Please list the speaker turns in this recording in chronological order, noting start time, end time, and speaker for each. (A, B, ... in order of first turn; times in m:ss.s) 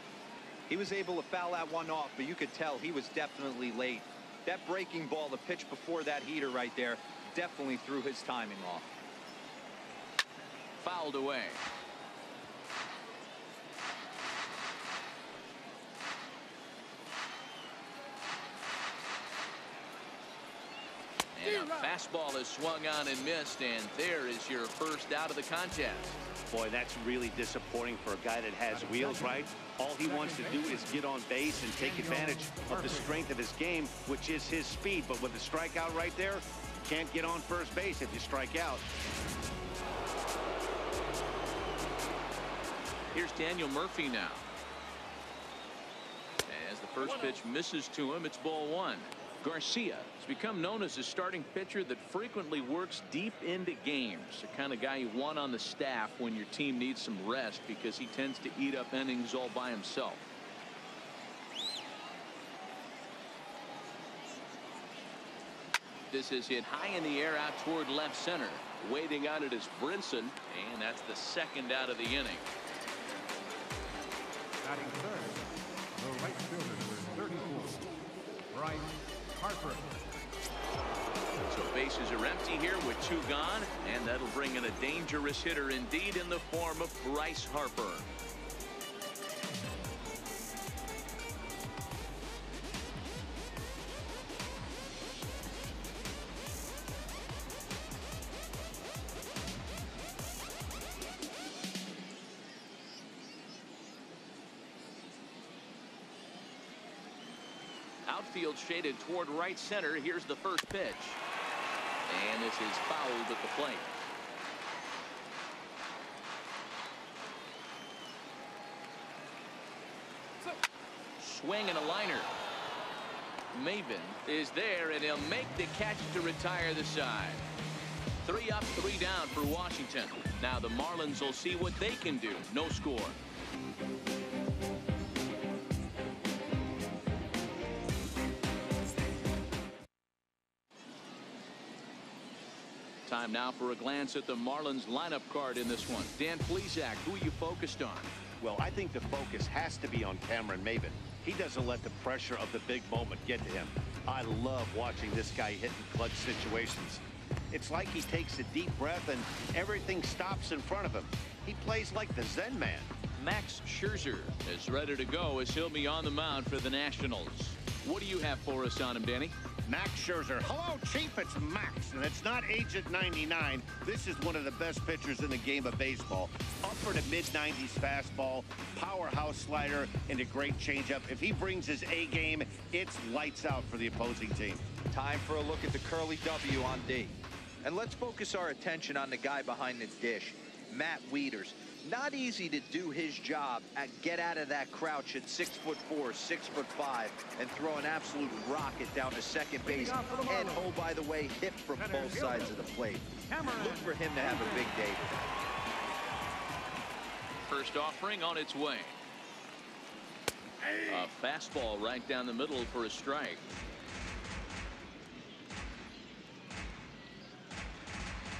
0:00.7-0:08.9 A
0:10.8-0:11.6 B
0:21.3-0:26.2 B
0:26.5-0:38.8 C
0:28.7-0:30.9 D
0:31.8-0:33.2 D
0:43.1-0:44.4 B
0:46.5-1:00.2 B
1:06.1-1:12.5 B
1:14.6-1:15.4 D
1:16.0-1:17.8 D
1:18.5-1:19.9 D
1:21.4-1:28.0 B
1:48.0-1:51.2 B
1:52.1-1:53.9 B
2:01.2-2:02.3 B
2:03.5-2:07.4 B
2:08.2-2:13.2 B
2:23.0-2:28.1 B
2:28.4-2:42.9 C
2:43.2-2:49.3 B
2:49.6-3:04.6 C
3:04.9-3:25.2 A
3:19.6-3:20.7 D
3:21.8-3:22.6 D
3:23.3-3:24.7 D
3:27.5-3:29.0 B
3:30.8-3:33.6 B